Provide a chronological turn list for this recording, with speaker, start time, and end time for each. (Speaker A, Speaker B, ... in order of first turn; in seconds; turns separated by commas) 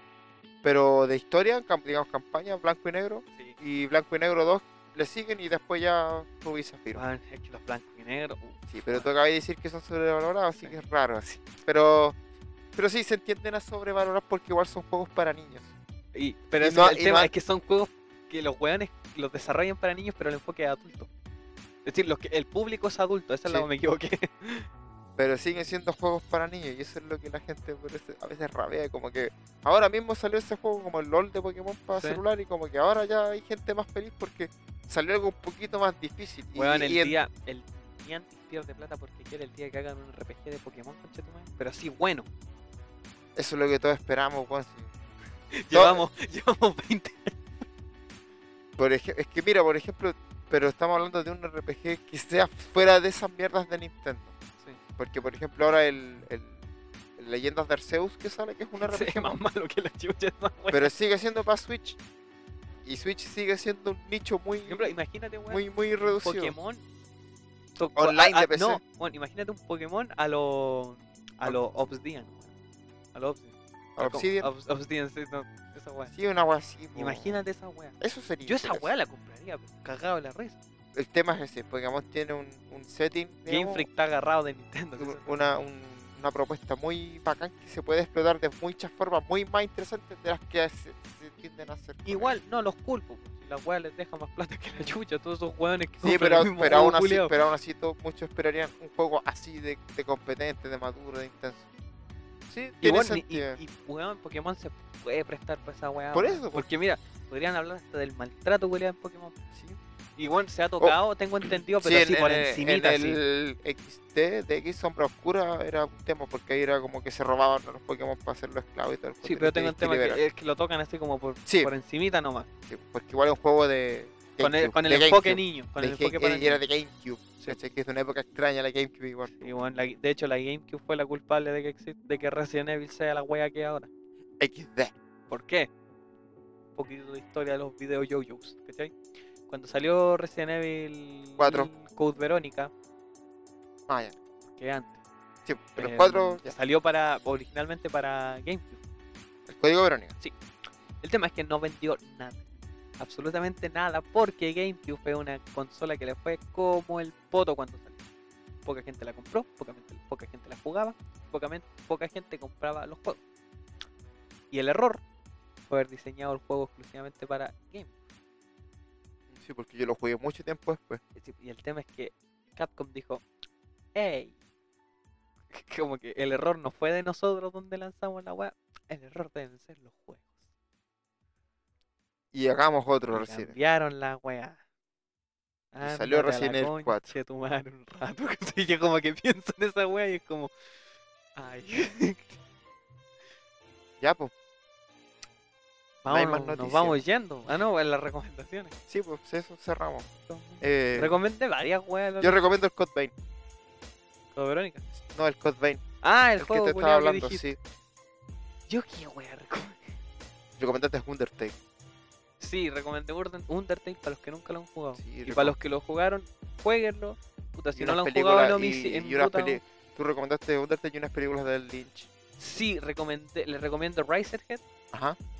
Speaker A: 0.6-7.0, Speaker B: 7.0-9.1, Speaker A: 8.7-12.2, Speaker A: 12.8-15.7, Speaker B: 16.1-21.1, Speaker A: 16.6-17.3, Speaker B: 21.9-24.7, Speaker A: 25.2-37.2, Speaker B: 31.9-32.2, Speaker B: 36.5-42.3, Speaker A: 43.4-44.9, Speaker B: 45.5-47.5, Speaker A: 45.7-46.0, Speaker A: 48.8-54.3, Speaker A: 55.0-56.6, Speaker A: 57.2-59.4, Speaker B: 58.8-60.9, Speaker A: 60.7-62.0, Speaker A: 62.8-65.0, Speaker B: 64.7-66.8, Speaker A: 65.5-66.6, Speaker B: 67.8-72.5, Speaker A: 68.0-68.8, Speaker B: 73.1-76.1, Speaker A: 74.0-74.5, Speaker A: 76.1-77.4, Speaker B: 77.0-80.6, Speaker A: 78.0-78.9, Speaker A: 81.0-83.9, Speaker B: 83.5-85.3, Speaker A: 85.0-92.3, Speaker B: 92.0-97.4, Speaker A: 96.0-101.7, Speaker B: 102.5-109.4, Speaker A: 102.8-103.6, Speaker A: 106.1-106.7, Speaker A: 109.5-109.8, Speaker B: 110.2-113.2, Speaker A: 111.8-120.2, Speaker B: 119.2-122.5, Speaker A: 121.5-121.7, Speaker A: 122.7-129.5, Speaker B: 124.4-126.6, Speaker B: 129.3-133.9, Speaker A: 134.4-134.9, Speaker B: 135.3-135.7, Speaker B: 136.8-138.9, Speaker B: 139.5-142.7, Speaker A: 141.4-141.7, Speaker A: 143.9-144.2, Speaker B: 144.5-145.0, Speaker A: 145.5-146.5, Speaker B: 145.8-148.8, Speaker A: 149.5-150.1, Speaker B: 151.0-152.4, Speaker B: 153.0-158.0, Speaker B: 158.7-163.2, Speaker B: 164.5-165.0, Speaker B: 165.7-167.9, Speaker A: 169.3-171.0, Speaker B: 171.2-173.2, Speaker B: 173.9-174.3, Speaker B: 175.5-180.3, Speaker A: 182.3-183.5, Speaker B: 183.1-184.6, Speaker B: 185.7-190.5, Speaker A: 185.8-187.1, Speaker B: 191.4-192.4, Speaker A: 194.0-194.3, Speaker B: 196.0-198.7, Speaker A: 196.1-197.0, Speaker A: 198.9-200.1, Speaker B: 200.3-202.4, Speaker A: 200.6-201.2, Speaker A: 202.2-203.1, Speaker B: 204.3-204.8, Speaker A: 205.0-205.8, Speaker B: 206.0-207.5, Speaker A: 206.4-207.6, Speaker B: 208.7-209.9, Speaker A: 210.6-211.6, Speaker B: 212.4-219.6, Speaker A: 215.0-215.6, Speaker A: 217.8-222.1, Speaker B: 222.4-224.6, Speaker A: 224.9-225.2